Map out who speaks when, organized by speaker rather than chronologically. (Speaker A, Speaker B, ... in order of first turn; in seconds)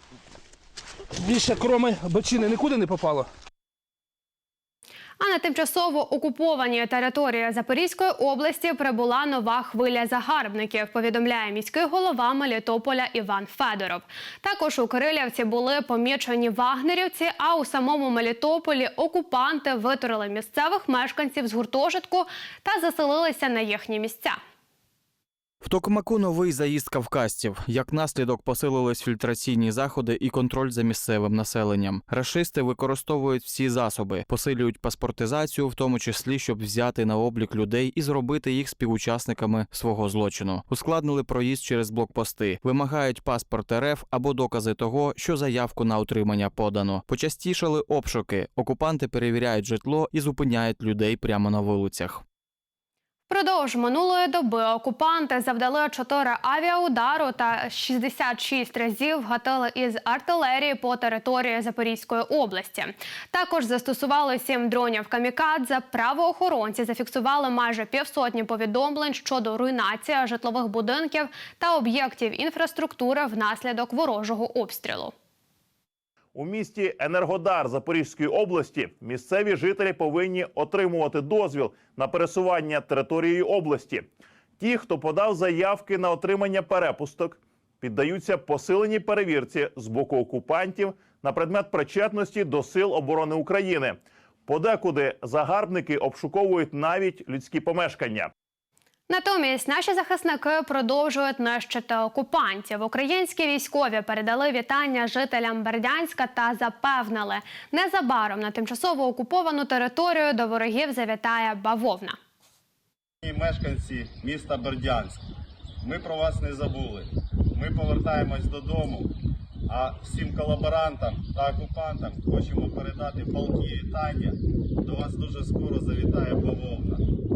Speaker A: 1.2-3.3
Speaker B: 5.2-24.4, 53.3-75.1, 99.1-112.2
Speaker C: 25.6-52.2
Speaker D: 76.3-84.1, 84.6-98.3
Speaker E: 113.2-115.2, 115.8-119.1, 119.7-127.0